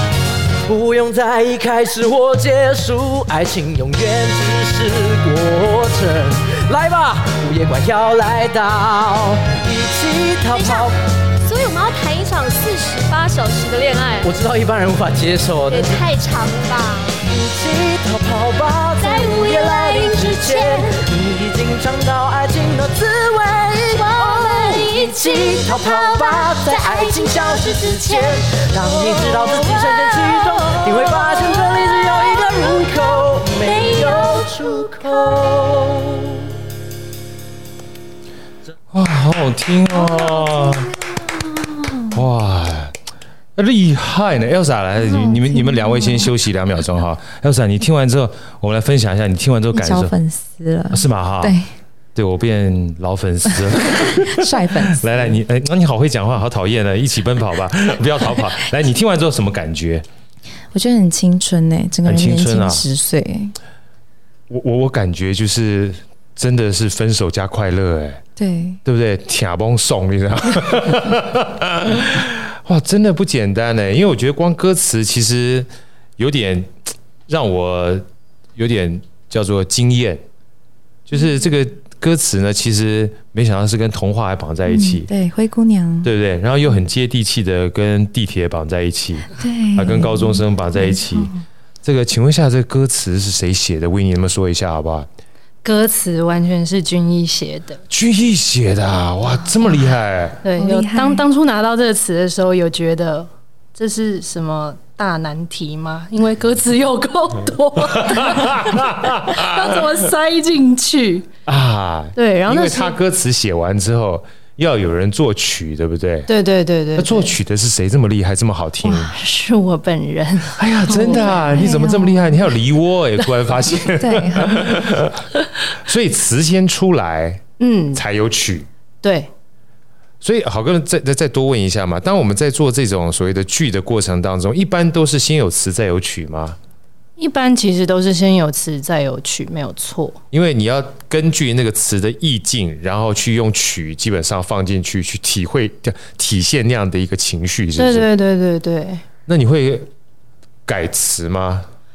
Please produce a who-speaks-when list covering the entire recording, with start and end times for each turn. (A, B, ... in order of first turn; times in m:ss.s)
0:00.7-0:11.0 A
0:10.5-0:10.9 B
0:11.4-0:14.3 B
0:14.2-0:16.1 A
0:15.7-0:17.2 B
0:17.2-0:36.2 A
0:19.0-0:21.0 B
0:23.9-0:35.4 B
0:38.9-0:40.9 C
0:40.2-0:40.8 B
0:42.1-0:42.9 C
0:43.6-0:50.1 C
0:45.0-0:46.3 D
0:49.7-0:51.7 D
0:50.9-0:51.6 C
0:52.2-1:00.0 C
0:54.1-0:55.4 D
1:00.7-1:03.6 D
1:02.0-1:02.8 C
1:04.5-1:08.2 C
1:08.4-1:08.8 D
1:08.8-1:15.7 C
1:16.2-1:18.0 C
1:18.6-1:20.2 C
1:21.1-1:25.1 C
1:24.7-1:26.1 D
1:26.0-1:31.3 C
1:29.4-1:31.4 D
1:31.8-1:35.1 C
1:35.6-1:37.8 E
1:37.9-1:40.4 C
1:40.4-1:51.3 E
1:40.6-1:41.2 D
1:47.9-1:49.8 C
1:51.5-1:56.3 C
1:52.2-1:53.0 E
1:56.3-1:57.3 E
1:57.0-1:59.1 C
1:59.1-2:01.6 E
2:00.6-2:05.2 C
2:00.9-2:02.3 D
2:04.0-2:04.6 D
2:05.8-2:07.4 C
2:07.6-2:08.0 E
2:07.9-2:08.7 C
2:09.0-2:09.3 E
2:10.2-2:16.6 C
2:17.2-2:20.2 E
2:20.3-2:28.1 C
2:27.8-2:29.0 E
2:29.3-2:29.9 C
2:30.7-2:31.7 C